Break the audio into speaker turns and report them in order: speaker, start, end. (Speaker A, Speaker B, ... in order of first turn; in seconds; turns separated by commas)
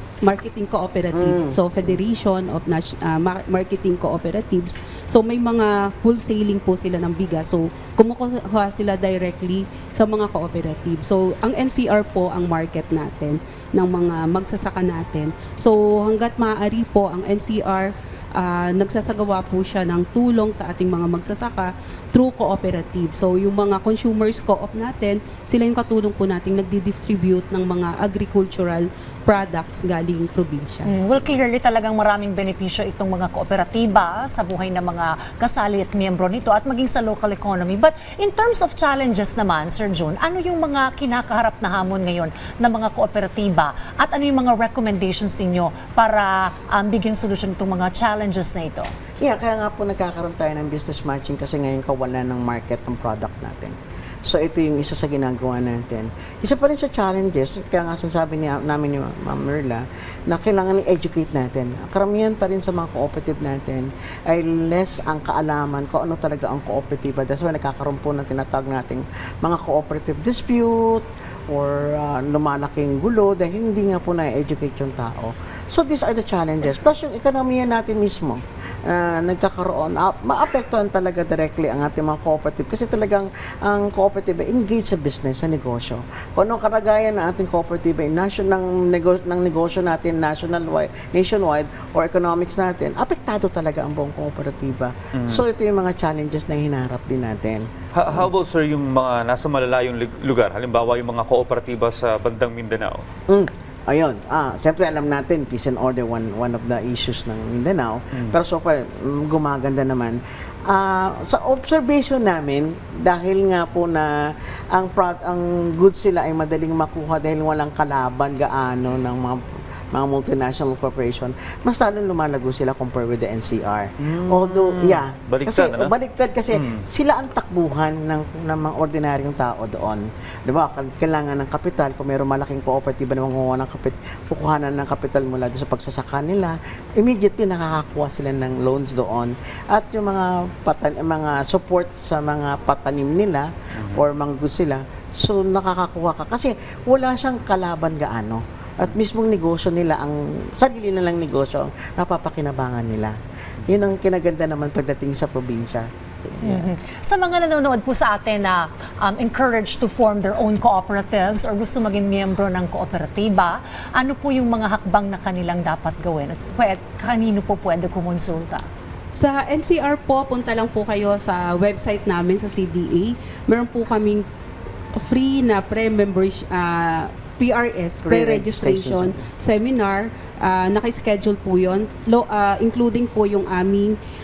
Speaker A: 0.2-30.9, Speaker B: 1.1-1.6, Speaker C: 30.9-48.9, Speaker B: 49.2-98.2, Speaker D: 95.1-95.4, Speaker D: 97.9-103.0, Speaker B: 103.3-153.1, Speaker D: 124.0-125.9, Speaker D: 126.5-126.8, Speaker D: 143.8-144.0, Speaker B: 153.7-156.7, Speaker C: 156.4-168.7, Speaker A: 169.2-174.2, Speaker A: 174.9-184.0, Speaker B: 178.0-179.2